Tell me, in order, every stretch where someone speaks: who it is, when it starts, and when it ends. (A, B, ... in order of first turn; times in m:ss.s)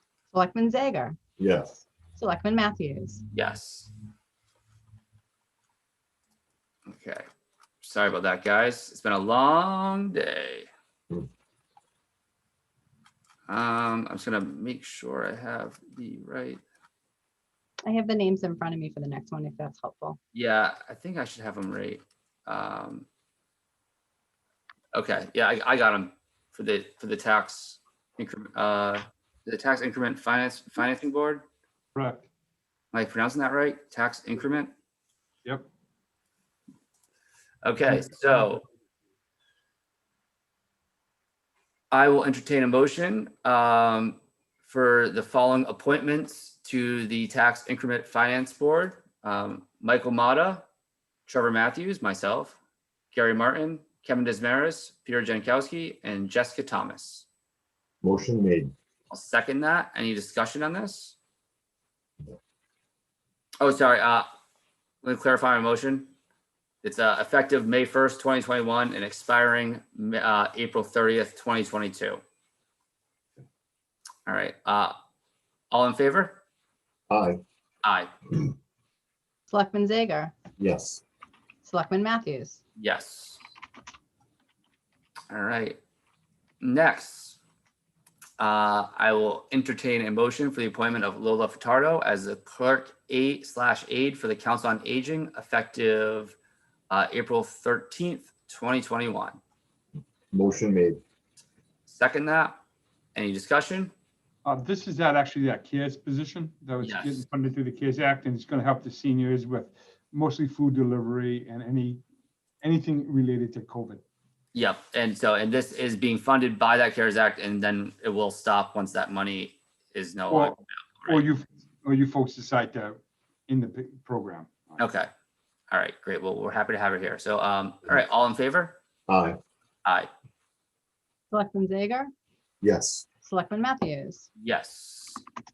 0:00.3-0:01.2 A
0:01.4-0:01.8 B
0:02.2-0:03.2 A
0:03.3-0:03.9 C
0:06.9-0:07.2 C
0:07.8-0:10.7 C
0:13.5-0:16.6 C
0:17.8-0:20.2 A
0:20.3-0:23.1 C
0:24.9-0:31.4 C
0:32.0-0:32.3 D
0:32.9-0:34.7 C
0:37.6-0:38.6 C
0:41.9-0:50.6 C
0:51.3-0:52.6 C
0:53.1-0:57.3 C
0:58.0-0:58.7 B
0:59.1-1:01.2 C
1:03.6-1:04.3 C
1:05.0-1:06.1 C
1:06.8-1:12.2 C
1:14.3-1:14.9 C
1:15.7-1:16.4 C
1:17.1-1:17.4 B
1:17.8-1:18.1 C
1:19.5-1:20.3 A
1:20.6-1:21.0 B
1:21.6-1:22.6 A
1:22.8-1:23.4 C
1:25.3-1:25.8 C
1:26.6-1:27.4 C
1:28.4-1:36.4 C
1:36.9-1:39.4 C
1:40.3-1:41.0 B
1:41.9-1:42.6 C
1:43.2-1:43.9 C
1:44.4-1:52.0 D
1:46.8-1:47.2 C
1:52.6-1:54.0 D
1:54.5-2:01.2 C
2:00.3-2:04.8 D
2:04.8-2:05.1 C
2:05.7-2:08.8 C
2:09.1-2:09.4 B
2:11.3-2:12.1 A
2:12.6-2:13.0 B
2:13.2-2:14.3 A
2:14.4-2:15.2 C